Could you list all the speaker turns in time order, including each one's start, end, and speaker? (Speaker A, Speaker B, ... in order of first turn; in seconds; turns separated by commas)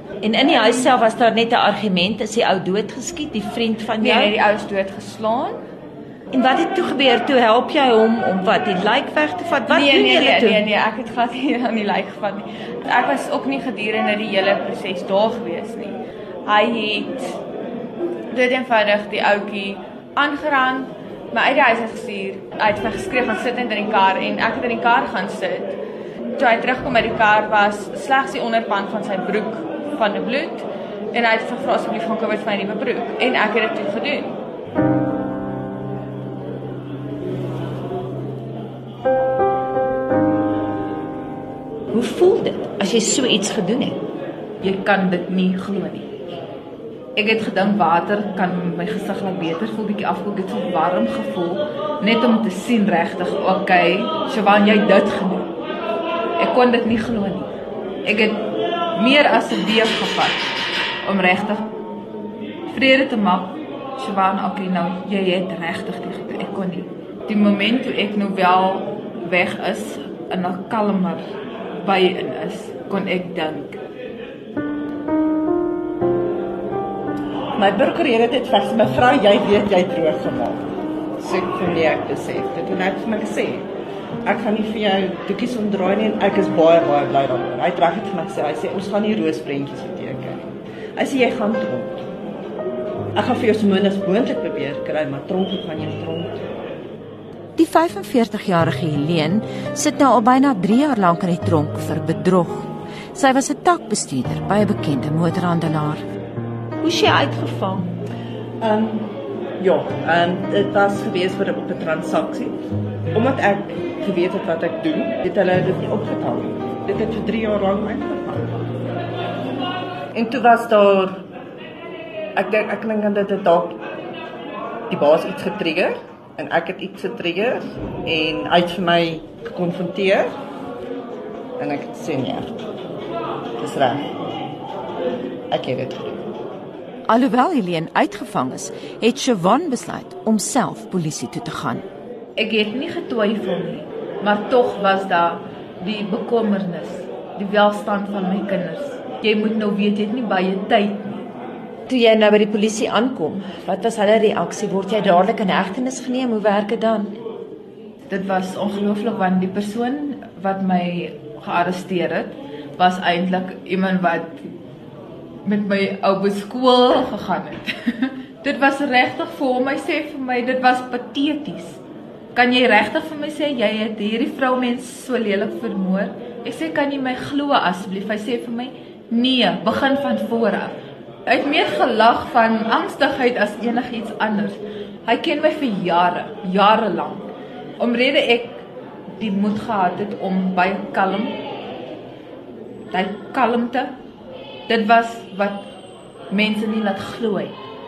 Speaker A: 0.2-4.3, Speaker B: 4.0-5.6, Speaker A: 6.3-10.6, Speaker B: 9.7-17.3, Speaker B: 18.3-25.8, Speaker B: 26.4-34.4, Speaker A: 41.9-44.0, Speaker C: 44.6-46.1, Speaker C: 47.1-55.5, Speaker C: 56.4-57.5, Speaker C: 58.0-60.5, Speaker C: 61.0-61.7, Speaker C: 62.7-71.2, Speaker C: 71.8-73.8, Speaker D: 77.6-80.6, Speaker D: 81.2-83.7, Speaker D: 84.2-92.1, Speaker D: 93.1-96.5, Speaker A: 97.6-106.0, Speaker A: 106.8-107.9, Speaker D: 108.6-112.5, Speaker D: 113.1-118.6, Speaker D: 120.1-121.2, Speaker D: 122.3-123.8, Speaker D: 124.9-130.3, Speaker D: 131.6-132.6, Speaker D: 133.6-134.1, Speaker D: 135.5-136.2, Speaker A: 137.1-141.8, Speaker C: 142.4-151.3, Speaker A: 151.9-157.2, Speaker C: 158.1-164.5, Speaker C: 165.4-171.8, Speaker C: 172.3-191.4, Speaker C: 192.9-193.9, Speaker C: 194.7-195.7, Speaker C: 196.3-197.6